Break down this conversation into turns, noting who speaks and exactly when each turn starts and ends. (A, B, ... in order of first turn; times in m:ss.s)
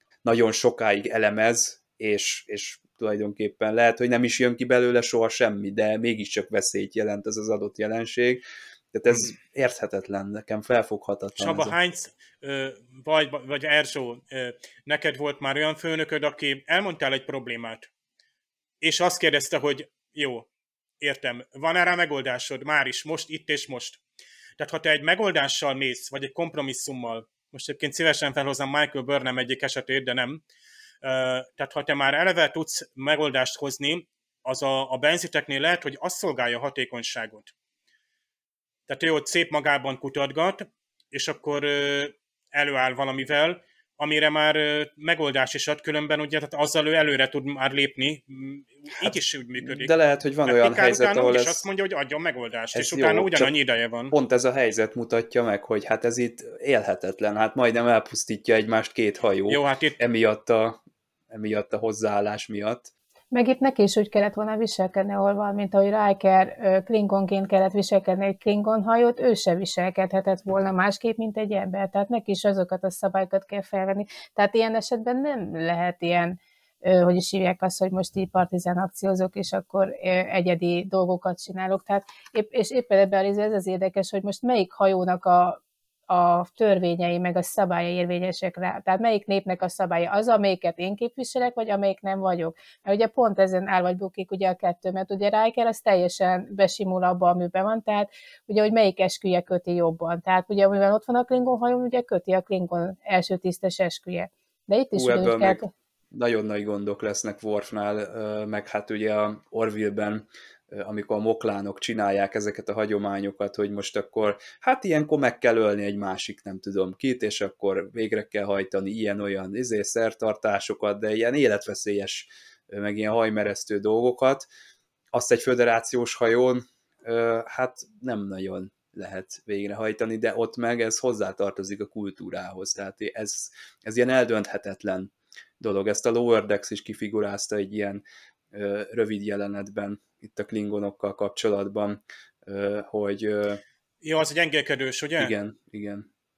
0:00.2-0:11.7 A
0:11.4-0:17.9 B
0:18.8-0:20.5 B
0:21.0-0:24.0 B
0:24.6-0:30.4 B
0:31.0-0:37.5 B
0:38.9-0:49.9 B
0:49.0-0:51.6 A
0:50.4-0:54.1 B
0:52.7-0:53.5 A
0:54.1-1:00.8 A
0:59.5-1:00.0 B
1:01.3-1:02.9 A
1:03.3-1:45.7 C
1:44.9-1:45.6 A
1:46.1-2:04.5 A
2:05.1-2:23.6 A
2:24.0-2:25.3 B
2:25.2-2:26.1 A